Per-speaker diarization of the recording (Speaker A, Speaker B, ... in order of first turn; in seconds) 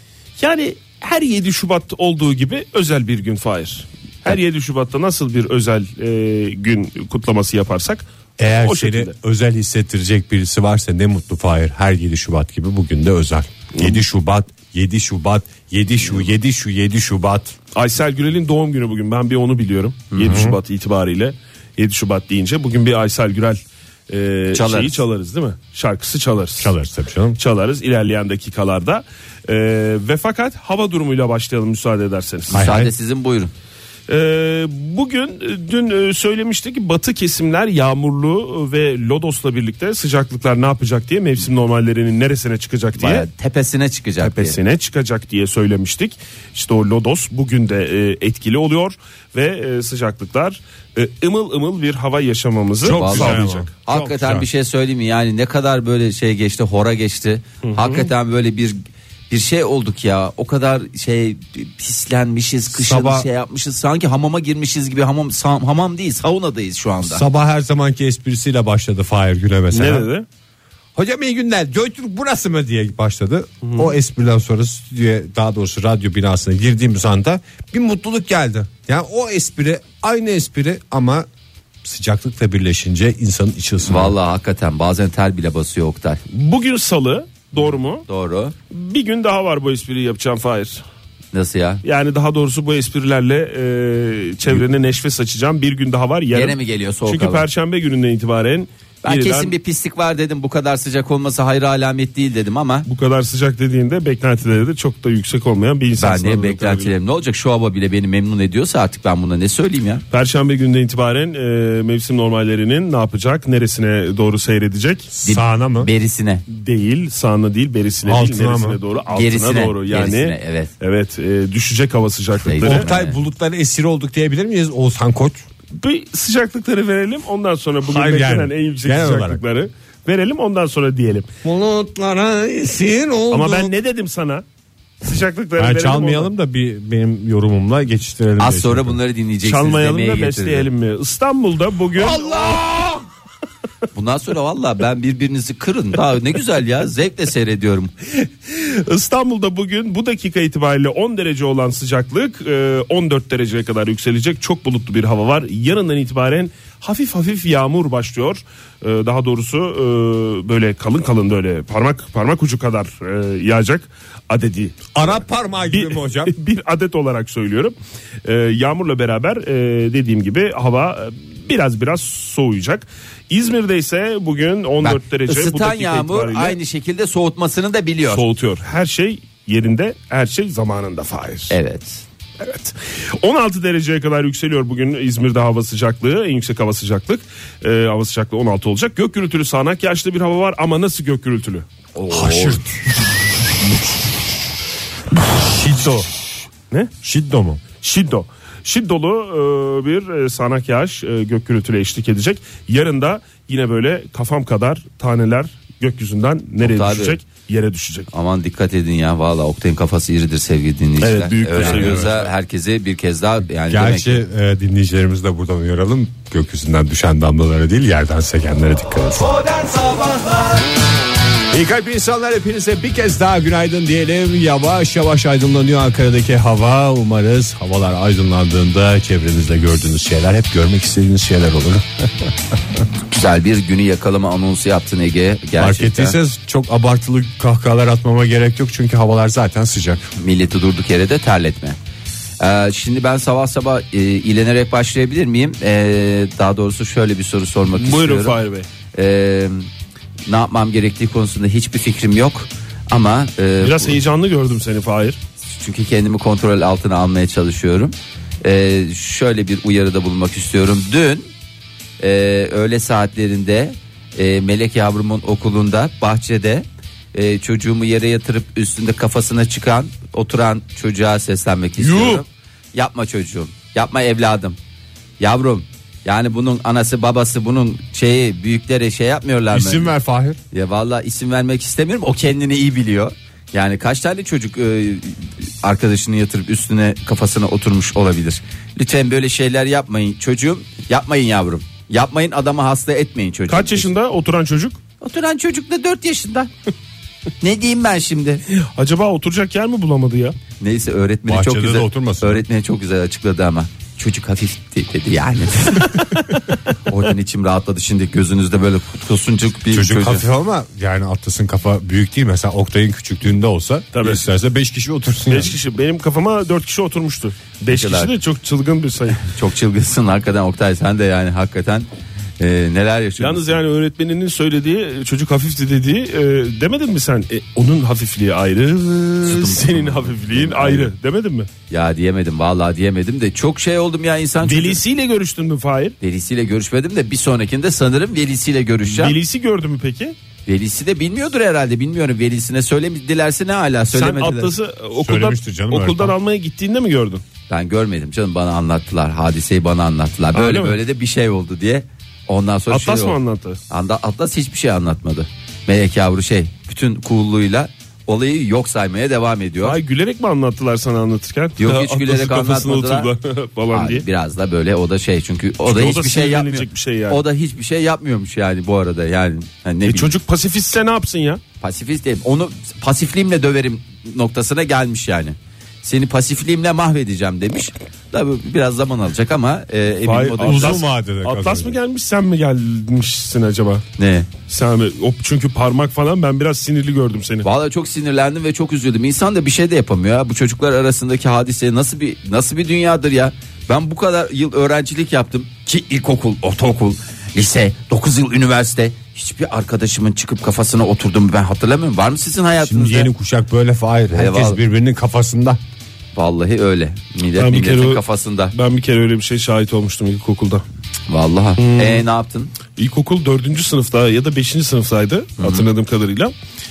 Speaker A: 0.4-9.1, 13.8-14.0, 17.7-26.7, 27.4-32.5, 34.1-43.3, 44.2-53.7, 57.6-58.1, 69.7-70.2, 73.6-73.9, 86.3-88.0, 88.7-90.8, 91.8-99.5, 102.8-106.9, 110.1-115.1, 116.5-122.9, 125.7-131.3, 133.3-134.4, 135.0-136.3, 139.4-142.6, 148.2-164.9, 165.7-176.6, 178.1-181.5, 182.4-191.7, 197.8-208.1, 211.0-212.3, 247.8-248.7, 253.6-255.2, 271.8-272.2, 293.5-294.8, 298.5-300.4, 313.9-314.2, 315.3-319.3, 323.2-331.5, 334.4-335.9, 338.8-340.1, 343.9-347.2, 350.3-350.8, 352.7-353.6, 359.6-364.0, 365.6-367.2, 369.8-371.4, 380.0-383.8, 384.5-387.5, 407.3-410.6, 411.6-412.0, 412.8-416.3
Speaker B: 8.4-17.6, 20.2-20.6, 26.6-27.4, 32.5-32.9, 52.8-54.5, 62.7-63.3, 67.0-70.1, 70.9-81.3, 81.8-84.1, 115.1-115.9, 118.0-118.8, 122.6-125.4, 127.8-129.4, 131.4-133.7, 135.6-139.0, 142.1-143.0, 164.9-166.3, 192.1-193.1, 195.2-196.1, 197.0-197.6, 211.5-212.2, 213.7-219.4, 221.5-232.3, 235.6-240.1, 279.5-280.4, 301.2-302.4, 309.7-315.6, 345.0-346.1, 380.4-381.8, 402.6-405.6
Speaker C: 20.1-20.4, 24.5-25.0, 32.5-33.5, 43.0-44.5, 52.9-58.8, 59.3-67.2, 83.8-86.2, 88.1-88.5, 91.3-91.8, 96.3-97.4, 99.0-102.9, 106.0-110.0, 115.2-116.4, 119.1-120.7, 122.4-123.2, 138.4-140.7, 143.9-147.9, 174.8-178.2, 181.5-182.0, 191.9-192.6, 206.6-207.2, 208.1-214.2, 233.1-236.2, 240.2-241.8, 242.4-248.4, 248.9-249.7, 250.2-253.9, 255.5-261.3, 262.0-274.6, 275.2-279.9, 280.5-293.9, 295.0-296.5, 297.4-298.4, 300.6-310.2, 317.7-318.1, 319.2-321.9, 322.4-323.5, 329.2-330.9, 331.7-334.8, 336.0-339.1, 340.4-344.5, 347.5-353.2, 353.7-359.8, 361.6-363.1, 363.7-370.1, 371.6-380.8, 384.0-384.3, 387.4-403.1, 404.1-404.6, 406.1-408.5, 411.1-412.5, 415.4-415.6